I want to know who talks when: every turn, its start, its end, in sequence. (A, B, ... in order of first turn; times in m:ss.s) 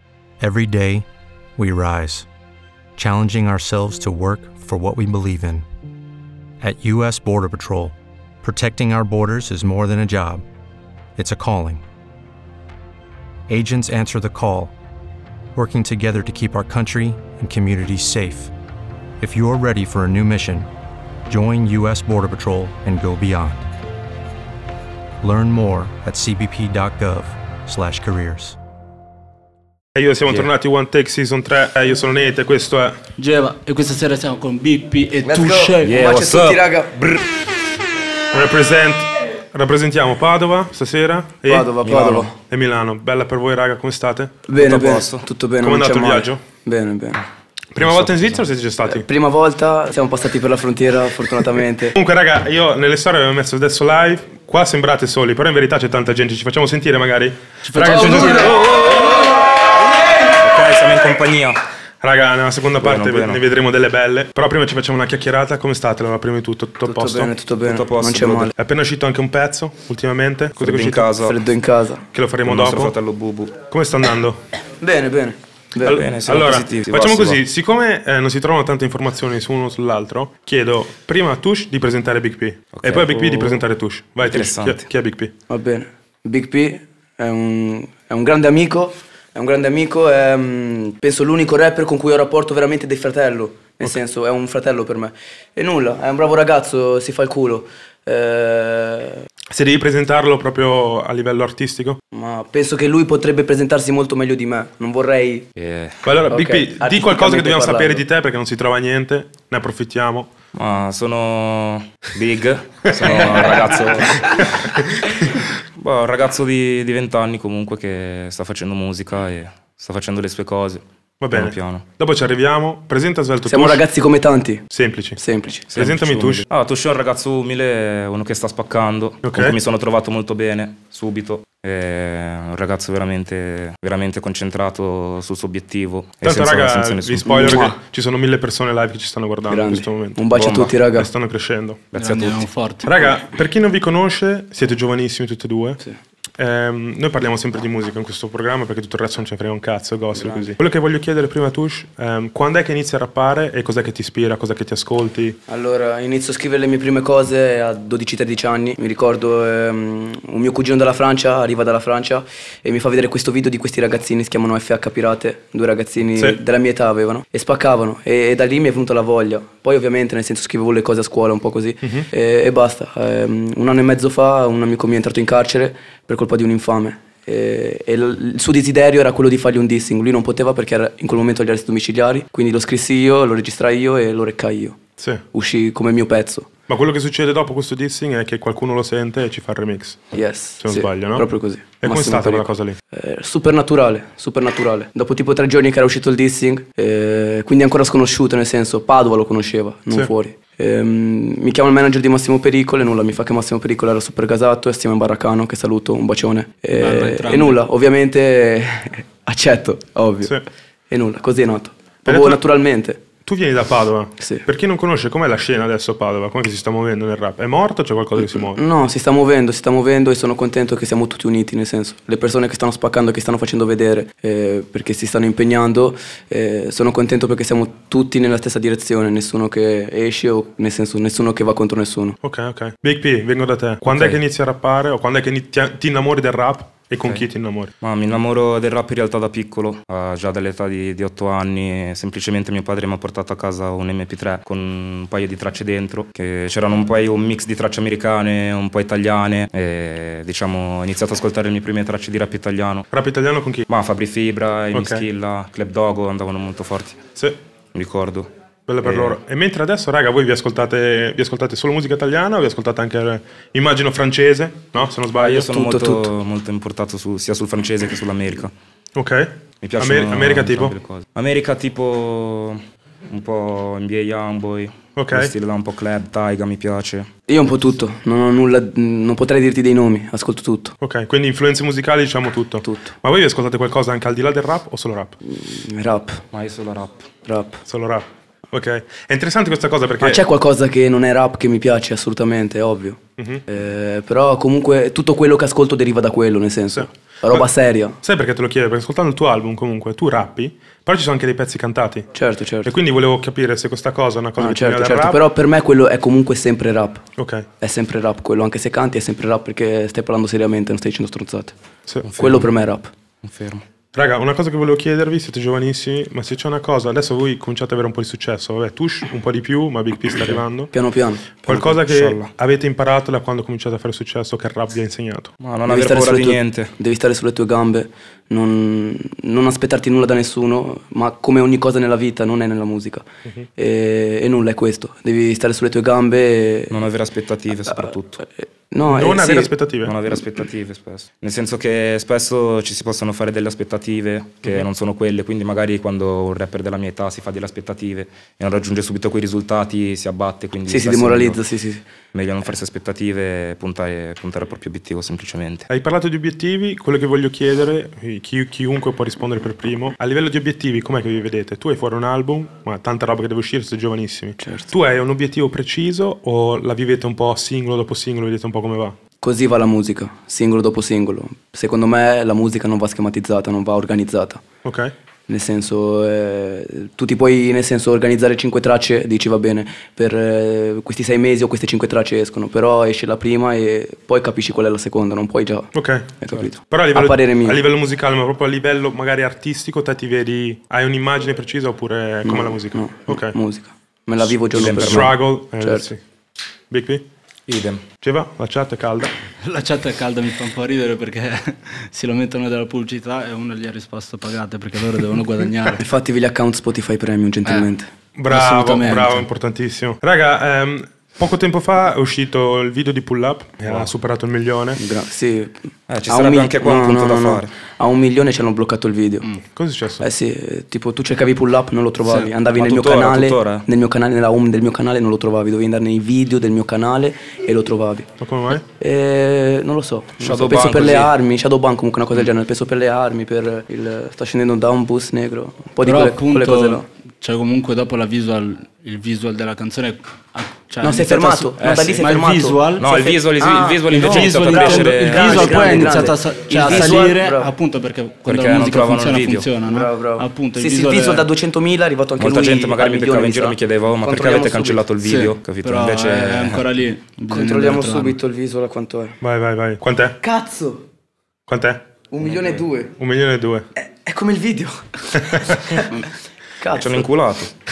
0:00.4-0:01.0 A
0:01.6-0:02.2 A
0:03.0-0:05.7 A
0:06.6-0:10.4 A
0:11.2-0:11.8 A
0:13.5-0:14.7 A
0:15.5-0:18.5 A
0:19.2-0:20.7 A
0:21.3-0:23.6 A
0:25.2-0:28.6 A
0:29.9-0:33.0 B
0:33.2-0:36.0 C
0:35.2-0:37.2 D
0:35.8-0:37.2 E
0:38.3-0:44.4 B
0:41.5-0:42.4 D
0:44.4-0:47.2 D
0:44.5-0:45.3 E
0:45.6-0:46.5 B
0:47.7-0:49.1 B
0:47.8-0:48.5 E
0:48.8-0:51.9 D
0:51.9-0:58.6 B
0:57.6-0:58.3 C
0:57.9-0:59.4 E
1:00.4-1:01.6 E
1:02.0-1:07.3 B
1:02.8-1:03.4 E
1:06.8-1:08.5 D
1:07.6-1:08.5 E
1:08.6-1:11.1 B
1:10.5-1:11.4 E
1:11.2-1:12.0 D
1:12.1-1:12.9 B
1:12.4-1:13.6 E
1:13.6-1:14.4 B
1:14.8-1:16.0 D
1:15.8-1:25.3 B
1:15.9-1:17.4 E
1:22.7-1:23.6 E
1:24.2-1:24.9 E
1:25.5-1:39.2 D
1:39.5-1:42.0 B
1:42.1-1:45.5 D
1:45.6-1:46.0 E
1:46.0-1:50.3 B
1:46.3-1:48.0 D
1:50.5-1:54.8 E
1:53.0-1:54.4 B
1:55.8-2:01.9 E
2:01.2-2:03.8 B
2:03.4-2:05.8 D
2:04.7-2:05.2 B
2:05.7-2:17.3 E
2:05.7-2:06.4 B
2:09.2-2:09.6 B
2:16.2-2:20.2 B
2:17.2-2:17.8 D
2:19.4-2:21.1 D
2:20.3-2:20.8 E
2:20.9-2:21.9 B
2:21.9-2:22.5 E
2:21.9-2:22.9 C
2:22.8-2:25.8 B
2:26.4-2:35.4 B
2:30.1-2:30.5 D
2:35.5-3:06.5 D
3:05.0-3:05.2 B
3:06.7-3:10.0 B
3:10.1-3:30.4 D
3:10.6-3:11.3 B
3:11.8-3:12.8 B
3:26.7-3:27.6 C
3:30.9-3:33.1 D
3:32.0-3:32.4 B
3:33.2-3:38.6 B
3:34.2-3:34.4 D
3:38.1-3:52.2 D
3:52.2-3:57.7 B
3:53.8-3:54.2 E
3:57.8-4:12.9 E
4:12.9-4:13.6 B
4:13.7-4:17.0 E
4:14.7-4:15.0 B
4:17.7-4:18.3 E
4:18.7-4:25.6 B
4:18.8-4:19.2 E
4:25.1-4:28.5 E
4:25.5-4:26.1 D
4:28.9-4:30.7 B
4:29.6-4:37.1 E
4:35.0-4:35.3 B
4:37.3-4:40.7 D
4:40.8-4:45.2 B
4:42.6-4:42.9 D
4:45.2-4:46.2 D
4:46.3-4:47.1 E
4:47.2-4:47.6 D
4:47.6-4:50.2 B
4:50.0-4:58.0 D
4:53.2-4:53.4 B
4:56.7-4:57.5 B
4:58.0-5:02.1 B
5:02.1-5:02.7 D
5:02.6-5:05.2 B
5:04.4-5:07.1 D
5:07.2-5:07.5 B
5:07.6-5:11.5 D
5:12.0-5:12.5 E
5:12.1-5:12.9 D
5:13.2-5:13.6 E
5:13.9-5:20.7 B
5:20.7-5:21.3 D
5:21.4-5:22.3 E
5:21.4-5:25.3 B
5:25.4-5:26.7 E
5:25.7-5:33.0 D
5:33.6-5:36.9 D
5:36.7-5:38.2 E
5:37.6-5:39.5 D
5:38.8-5:39.9 B
5:39.8-5:51.4 E
5:50.6-5:51.8 D
5:52.1-5:55.7 E
5:55.7-6:09.0 B
6:04.4-6:04.7 D
6:09.2-6:14.4 D
6:14.6-6:14.9 B
6:15.3-6:27.6 D
6:25.7-6:33.4 B
6:32.2-6:35.9 D
6:34.5-6:35.1 E
6:34.6-6:36.0 B
6:36.7-6:37.0 B
6:37.5-6:37.8 E
6:38.0-6:39.1 B
6:39.4-6:45.8 C
6:45.8-6:47.9 D
6:47.4-6:47.7 C
6:48.2-6:54.8 B
6:48.3-6:49.2 C
6:54.8-6:55.6 D
6:55.9-6:57.5 E
6:56.1-6:59.3 D
6:59.4-7:00.1 B
7:00.0-7:16.8 D
7:02.0-7:02.4 C
7:02.4-7:03.7 E
7:08.2-7:08.6 B
7:10.2-7:11.1 E
7:15.8-7:22.9 C
7:20.8-7:27.5 D
7:21.6-7:22.1 E
7:22.8-7:26.1 E
7:23.9-7:31.3 C
7:26.6-7:27.0 E
7:28.2-7:29.5 E
7:29.6-7:34.9 D
7:32.2-7:36.6 E
7:35.0-7:38.2 C
7:37.3-7:39.2 D
7:39.2-7:40.2 B
7:40.2-7:40.8 D
7:41.5-7:41.9 B
7:42.1-7:43.0 D
7:43.0-7:43.6 B
7:43.8-7:46.0 D
7:45.1-7:45.7 B
7:46.6-7:47.1 D
7:46.7-7:47.5 E